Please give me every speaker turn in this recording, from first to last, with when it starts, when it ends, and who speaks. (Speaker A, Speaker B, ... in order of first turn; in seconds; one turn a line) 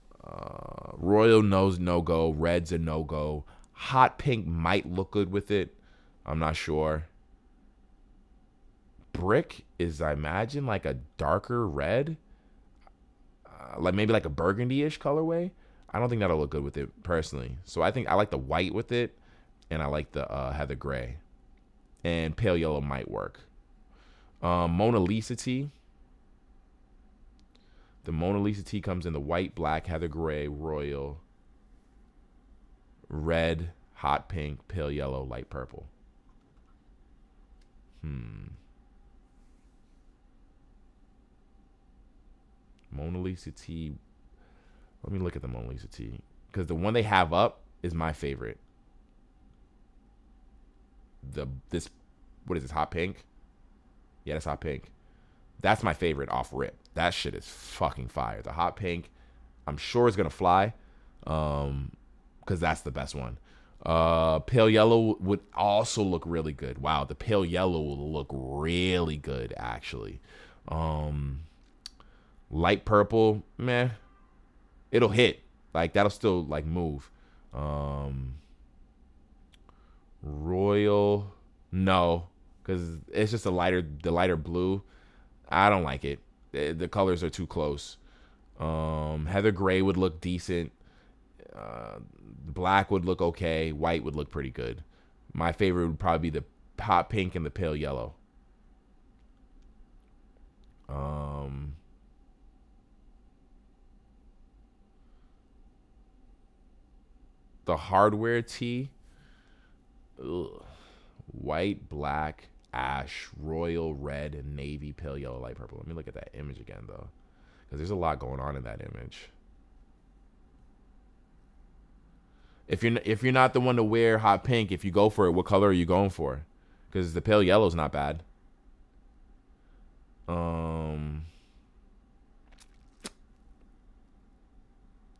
Speaker A: 0.2-7.1
Speaker A: 9.1-12.2
Speaker A: 13.5-19.2
Speaker A: 19.7-21.2
Speaker A: 22.0-23.5
Speaker A: 24.4-25.7
Speaker A: 28.0-31.2
Speaker A: 33.1-35.9
Speaker A: 38.0-38.6
Speaker A: 42.9-44.0
Speaker A: 45.0-48.6
Speaker A: 51.2-51.9
Speaker A: 52.4-53.3
Speaker A: 54.2-54.9
Speaker A: 55.6-59.1
Speaker A: 59.6-60.7
Speaker A: 61.2-71.5
Speaker A: 72.5-74.0
Speaker A: 74.9-78.4
Speaker A: 80.2-84.8
Speaker A: 85.5-88.0
Speaker A: 88.6-90.7
Speaker A: 91.5-98.2
Speaker A: 100.9-101.8
Speaker A: 107.7-108.9
Speaker A: 110.2-110.7
Speaker A: 111.3-117.1
Speaker A: 117.7-119.3
Speaker A: 122.7-128.2
Speaker A: 130.3-131.3